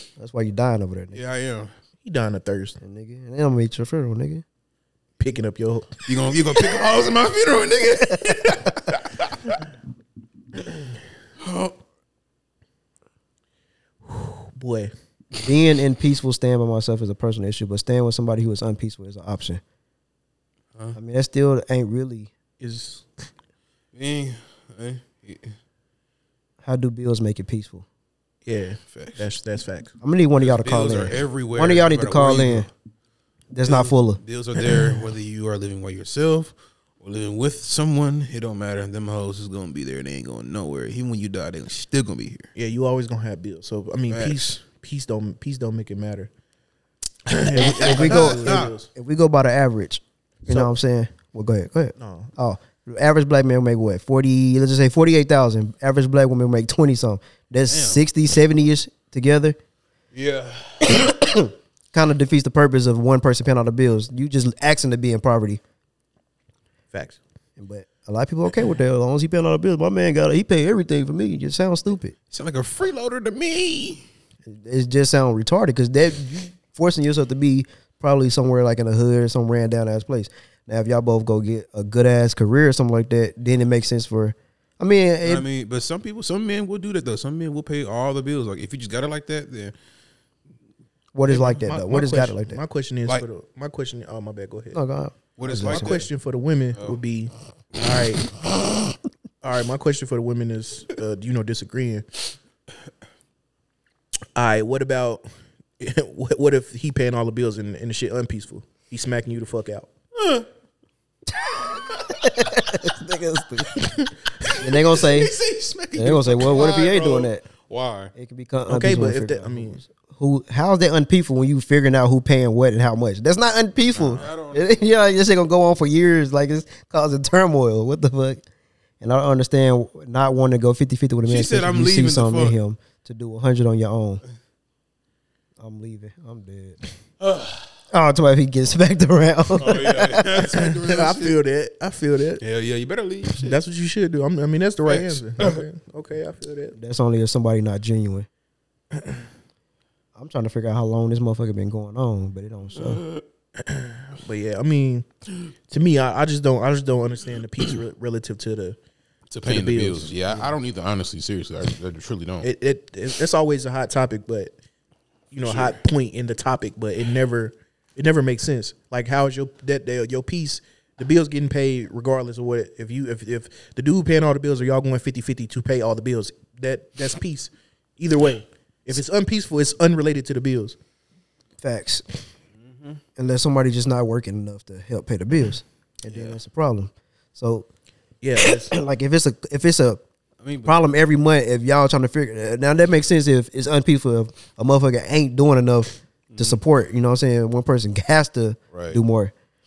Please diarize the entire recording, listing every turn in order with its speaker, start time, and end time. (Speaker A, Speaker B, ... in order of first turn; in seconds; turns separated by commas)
Speaker A: 0.2-1.2, Speaker B: 1.1-1.7, Speaker C: 2.0-2.8, Speaker A: 2.8-4.4, Speaker C: 5.2-6.0, Speaker B: 6.0-9.6, Speaker B: 11.4-11.8, Speaker C: 14.0-14.9, Speaker A: 15.3-19.6, Speaker A: 20.9-22.3, Speaker C: 22.6-23.1, Speaker B: 23.9-25.5, Speaker A: 26.6-27.8, Speaker C: 28.4-29.9, Speaker B: 28.9-29.3, Speaker A: 30.0-32.7, Speaker B: 30.4-32.7, Speaker A: 33.5-34.2, Speaker B: 33.6-42.5, Speaker C: 42.5-46.3, Speaker B: 44.1-44.5, Speaker C: 47.3-48.9, Speaker A: 47.5-59.6, Speaker B: 47.6-48.7, Speaker C: 50.5-50.7, Speaker C: 52.0-52.3, Speaker B: 57.7-58.0, Speaker B: 60.1-61.1, Speaker A: 60.9-65.6, Speaker C: 66.9-67.2, Speaker A: 67.6-72.1, Speaker B: 72.3-74.0, Speaker A: 74.5-85.4, Speaker B: 85.2-89.7, Speaker A: 91.1-92.6, Speaker C: 91.3-94.8, Speaker A: 94.7-96.0, Speaker B: 95.4-96.1, Speaker C: 95.5-98.3, Speaker C: 99.4-102.1, Speaker C: 104.3-105.2, Speaker C: 105.8-109.9, Speaker B: 110.2-110.5, Speaker A: 111.5-113.8, Speaker B: 114.4-118.1, Speaker A: 114.6-115.3, Speaker A: 116.0-117.4, Speaker A: 118.1-128.4, Speaker C: 118.7-119.8, Speaker B: 123.9-124.8, Speaker A: 129.0-134.2, Speaker B: 131.2-132.6, Speaker A: 135.6-136.8, Speaker B: 137.2-137.7, Speaker A: 137.9-140.2, Speaker B: 139.6-141.4, Speaker C: 140.3-142.4, Speaker B: 142.4-143.6, Speaker C: 143.4-146.8, Speaker B: 144.9-145.6, Speaker A: 146.8-148.3, Speaker A: 150.2-153.0, Speaker B: 152.8-153.2, Speaker C: 153.6-155.1, Speaker C: 155.7-158.8, Speaker B: 159.3-162.5, Speaker C: 159.4-160.5, Speaker C: 162.4-164.5, Speaker C: 165.3-180.8, Speaker B: 165.4-165.7, Speaker A: 181.6-182.0, Speaker B: 182.6-183.0, Speaker A: 183.2-187.7, Speaker B: 186.1-186.4, Speaker C: 188.2-188.7, Speaker A: 188.7-190.0, Speaker B: 190.4-190.7, Speaker A: 190.6-199.3, Speaker B: 196.3-196.6, Speaker B: 198.7-199.0